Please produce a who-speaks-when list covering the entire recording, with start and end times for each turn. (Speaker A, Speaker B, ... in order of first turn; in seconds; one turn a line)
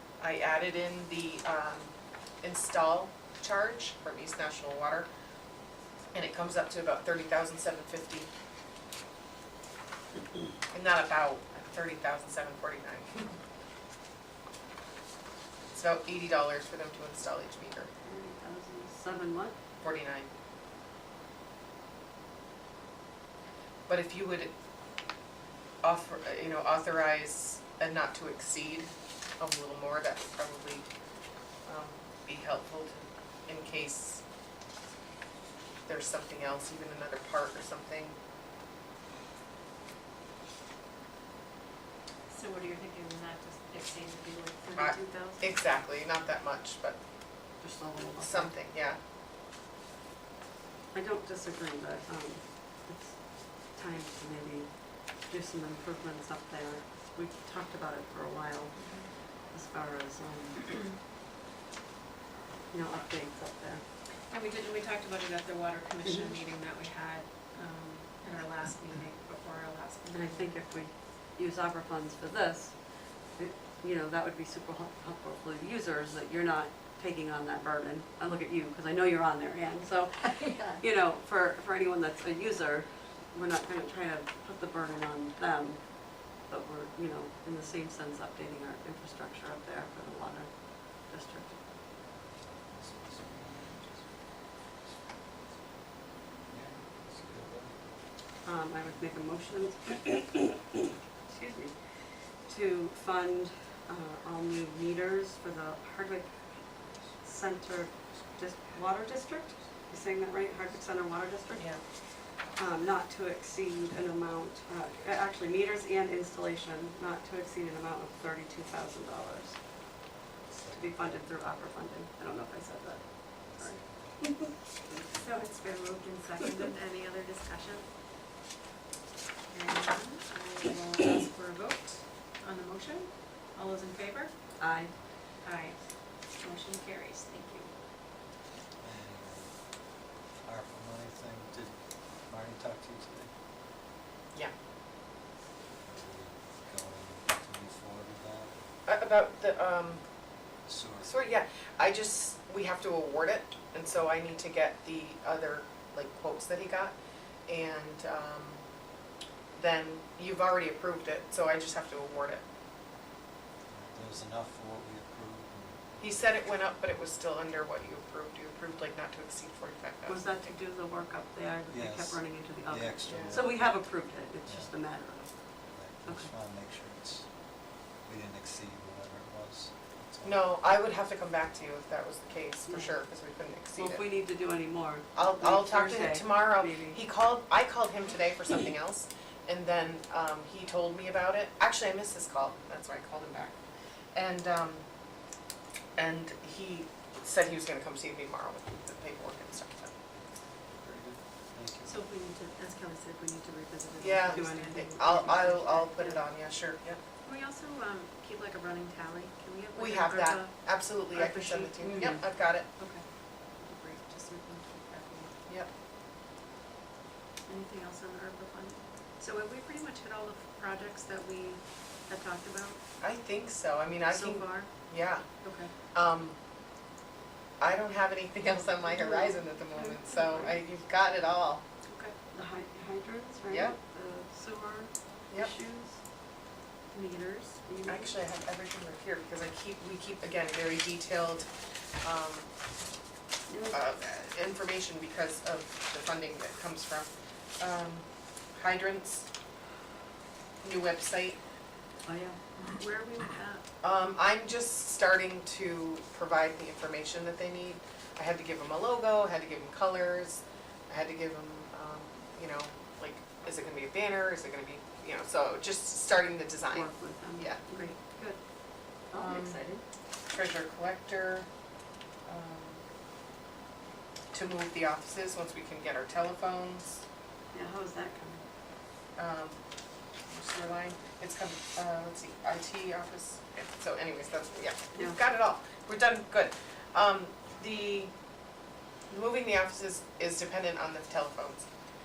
Speaker A: 0.2-5.1
Speaker A: 6.1-8.3
Speaker A: 10.7-13.4
Speaker A: 15.7-17.9
Speaker B: 18.0-19.6
Speaker A: 19.8-20.3
Speaker A: 23.9-24.5
Speaker A: 25.8-30.9
Speaker A: 31.6-34.2
Speaker A: 35.9-38.2
Speaker C: 42.3-45.6
Speaker A: 44.8-47.0
Speaker B: 47.6-48.6
Speaker A: 48.2-49.0
Speaker B: 50.9-60.9
Speaker C: 58.8-59.1
Speaker B: 62.7-63.9
Speaker C: 64.2-70.6
Speaker B: 66.0-66.4
Speaker B: 70.1-91.6
Speaker D: 92.2-94.2
Speaker D: 94.8-95.6
Speaker D: 96.5-98.0
Speaker B: 98.4-100.5
Speaker B: 101.3-120.1
Speaker A: 111.6-111.8
Speaker D: 120.5-121.4
Speaker B: 120.7-123.8
Speaker D: 122.9-125.3
Speaker C: 125.1-127.9
Speaker C: 129.5-134.5
Speaker B: 134.6-134.9
Speaker C: 135.4-137.7
Speaker D: 138.8-139.6
Speaker D: 140.4-143.3
Speaker D: 145.8-148.6
Speaker A: 148.9-150.0
Speaker D: 150.7-151.1
Speaker A: 151.0-156.9
Speaker A: 157.5-158.6
Speaker A: 159.6-162.4
Speaker D: 163.7-165.8
Speaker A: 166.0-170.4
Speaker B: 170.1-175.3
Speaker D: 171.7-173.8
Speaker A: 173.1-173.4
Speaker D: 174.5-174.8
Speaker D: 175.7-177.3
Speaker B: 176.1-176.3
Speaker D: 178.0-180.4
Speaker A: 180.2-184.1
Speaker B: 182.7-183.0
Speaker B: 183.7-187.0
Speaker A: 185.2-193.6
Speaker A: 194.1-194.8
Speaker A: 196.0-199.9
Speaker D: 200.8-202.0
Speaker C: 201.8-206.3
Speaker A: 204.0-207.0
Speaker B: 204.3-204.9
Speaker C: 207.2-215.3
Speaker A: 209.8-212.7
Speaker B: 211.9-212.2
Speaker C: 217.5-222.8
Speaker A: 223.0-225.2
Speaker C: 224.1-224.9
Speaker C: 225.4-225.7
Speaker A: 225.9-226.4
Speaker A: 227.6-231.6
Speaker C: 228.9-230.5
Speaker C: 231.9-232.2
Speaker B: 232.3-236.0
Speaker A: 233.5-233.8
Speaker C: 236.9-237.6
Speaker B: 237.7-238.1
Speaker A: 237.9-241.5
Speaker A: 242.0-242.5
Speaker B: 243.5-243.8
Speaker A: 243.7-249.3
Speaker A: 250.6-251.4
Speaker B: 252.1-252.4
Speaker C: 252.6-253.6
Speaker A: 253.8-267.6
Speaker B: 266.7-267.9
Speaker C: 267.7-268.4
Speaker B: 269.1-269.8
Speaker A: 269.1-269.6
Speaker A: 270.3-271.5
Speaker A: 272.3-272.8
Speaker A: 274.3-277.0
Speaker B: 277.5-278.4
Speaker A: 279.2-279.6
Speaker A: 280.3-288.1
Speaker A: 289.1-291.6